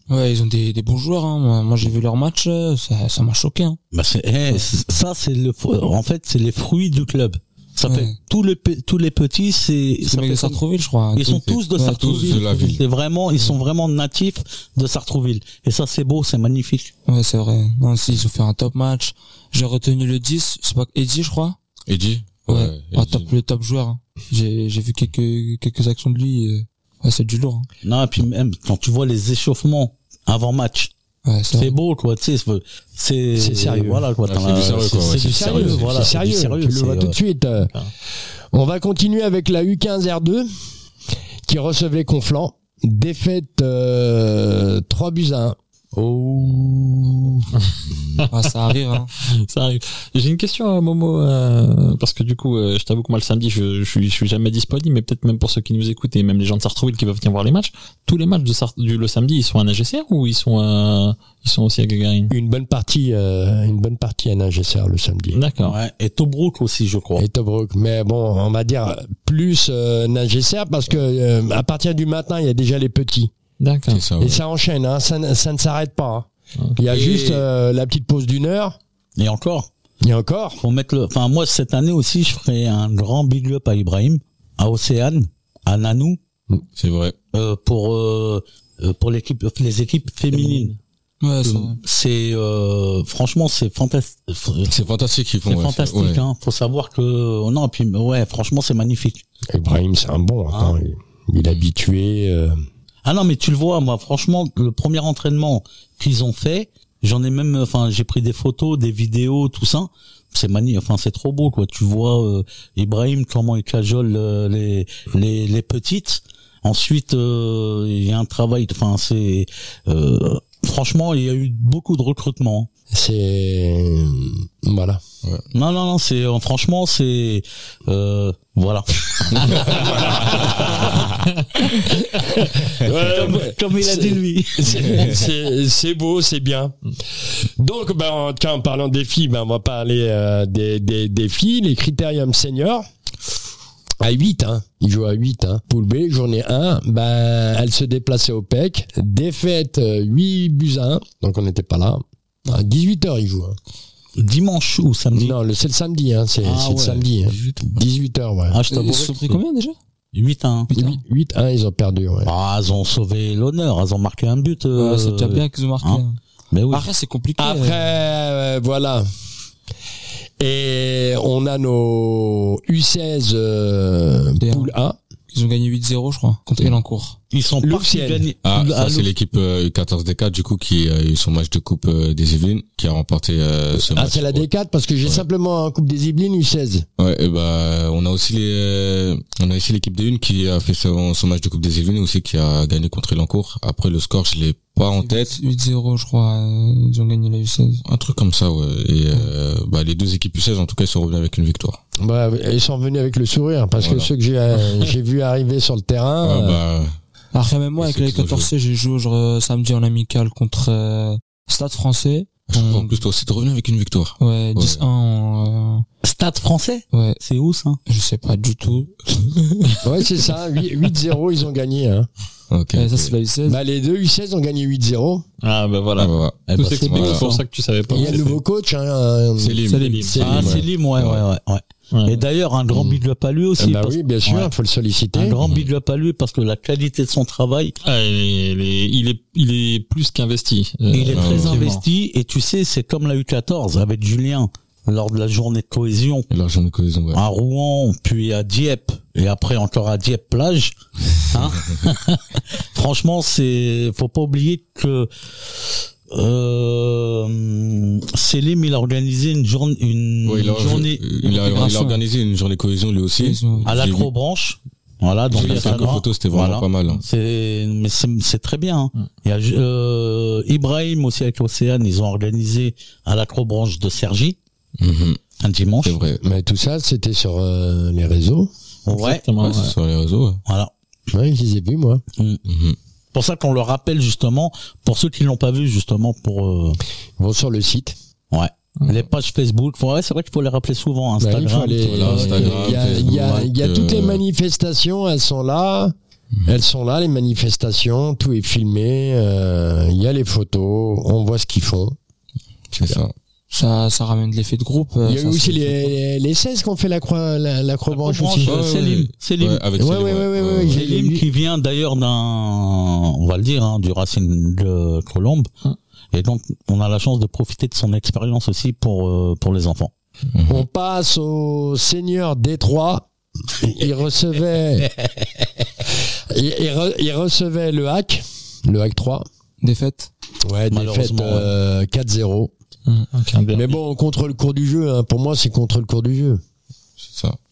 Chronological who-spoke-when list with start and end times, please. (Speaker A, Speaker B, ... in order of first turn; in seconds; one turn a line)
Speaker A: 0.1-3.8
Speaker B: 3.9-10.6
Speaker A: 7.9-8.1
Speaker A: 10.1-12.8
Speaker B: 11.2-16.9
Speaker C: 11.8-12.8
Speaker A: 17.1-21.6
Speaker C: 21.9-23.3
Speaker A: 22.5-27.7
Speaker B: 27.8-30.9
Speaker A: 31.2-31.8
Speaker B: 31.6-37.2
Speaker D: 33.4-34.0
Speaker C: 34.2-36.1
Speaker D: 35.2-37.7
Speaker D: 38.5-40.5
Speaker D: 41.5-45.6
Speaker B: 45.9-47.3
Speaker E: 47.6-48.3
Speaker A: 48.3-49.1
Speaker E: 49.2-62.3
Speaker D: 62.3-65.4
Speaker E: 65.3-65.8
Speaker B: 65.6-67.2
Speaker D: 67.2-73.3
Speaker E: 73.6-74.0
Speaker C: 73.9-74.4
Speaker D: 74.2-78.8
Speaker B: 76.9-77.4
Speaker B: 79.2-79.7
Speaker D: 80.0-80.6
Speaker B: 80.6-86.2
Speaker C: 86.8-87.2
Speaker B: 87.3-90.7
Speaker E: 90.3-90.8
Speaker A: 91.2-91.8
Speaker B: 91.4-94.7
Speaker C: 94.7-96.2
Speaker B: 95.5-99.2
Speaker D: 99.5-102.6
Speaker B: 103.0-122.7
Speaker D: 122.9-125.0
Speaker B: 125.5-131.1
Speaker D: 129.5-130.9
Speaker D: 132.3-136.8
Speaker B: 132.9-135.1
Speaker C: 134.8-135.2
Speaker D: 137.3-142.9
Speaker D: 144.0-153.6
Speaker B: 154.2-155.3
Speaker D: 155.1-158.6
Speaker B: 156.4-157.6
Speaker B: 158.5-159.4
Speaker A: 158.7-159.8
Speaker B: 160.1-160.7
Speaker A: 160.7-161.0
Speaker D: 160.7-162.3
Speaker B: 162.3-166.9
Speaker A: 164.8-166.2
Speaker A: 166.7-167.8
Speaker D: 167.4-169.1
Speaker D: 170.4-175.0
Speaker A: 174.4-174.7
Speaker A: 175.3-177.2
Speaker B: 177.3-179.1
Speaker D: 177.6-178.3
Speaker C: 178.4-184.4
Speaker D: 183.7-186.9
Speaker C: 187.0-195.4
Speaker A: 195.0-197.8
Speaker C: 197.9-201.8
Speaker D: 202.0-206.6
Speaker C: 203.8-204.1
Speaker C: 206.2-206.9
Speaker A: 207.3-213.0
Speaker C: 207.8-208.5
Speaker C: 212.5-214.8
Speaker A: 214.2-215.8
Speaker B: 216.0-217.8
Speaker A: 216.9-217.2
Speaker A: 217.9-219.8
Speaker D: 219.8-222.1
Speaker C: 222.5-223.1
Speaker A: 222.7-223.6
Speaker D: 223.5-225.2
Speaker E: 225.4-228.4
Speaker C: 226.0-227.2
Speaker B: 226.5-227.4
Speaker D: 227.9-229.6
Speaker E: 229.4-230.5
Speaker A: 229.7-230.2
Speaker D: 230.1-230.6
Speaker C: 230.1-231.2
Speaker B: 230.2-234.5
Speaker E: 231.9-232.2
Speaker C: 232.7-233.0
Speaker D: 233.6-235.4
Speaker B: 235.2-237.8
Speaker C: 235.4-235.7
Speaker E: 237.8-241.8
Speaker B: 240.9-246.3
Speaker C: 241.1-241.7
Speaker C: 246.3-247.2
Speaker B: 247.1-250.8
Speaker B: 251.3-255.6
Speaker B: 256.1-261.8
Speaker C: 260.2-264.1
Speaker A: 261.5-262.0
Speaker A: 263.2-263.7
Speaker B: 263.6-274.4
Speaker C: 265.3-267.0
Speaker E: 265.3-265.9
Speaker C: 274.8-275.2
Speaker B: 275.4-276.0
Speaker C: 275.8-276.2
Speaker D: 276.2-278.5
Speaker B: 278.9-279.3
Speaker E: 278.9-279.7
Speaker C: 279.4-280.4
Speaker B: 280.5-280.7
Speaker D: 281.1-282.0
Speaker B: 282.2-282.4
Speaker C: 282.5-282.8
Speaker B: 283.1-286.8
Speaker D: 287.2-288.0
Speaker B: 288.3-293.5
Speaker D: 291.2-295.9
Speaker C: 291.8-294.2
Speaker D: 296.5-302.0
Speaker C: 302.7-303.1
Speaker D: 302.8-303.0
Speaker A: 303.5-305.9
Speaker D: 305.1-308.6
Speaker B: 307.9-309.7
Speaker C: 308.4-310.8
Speaker D: 309.8-311.2
Speaker B: 310.7-315.5
Speaker B: 316.1-319.9
Speaker C: 320.4-320.6
Speaker D: 320.5-324.9
Speaker D: 326.3-329.3
Speaker A: 329.6-330.1
Speaker D: 330.4-332.5
Speaker B: 330.7-331.5
Speaker E: 333.1-333.8
Speaker D: 333.5-336.4
Speaker C: 337.0-337.4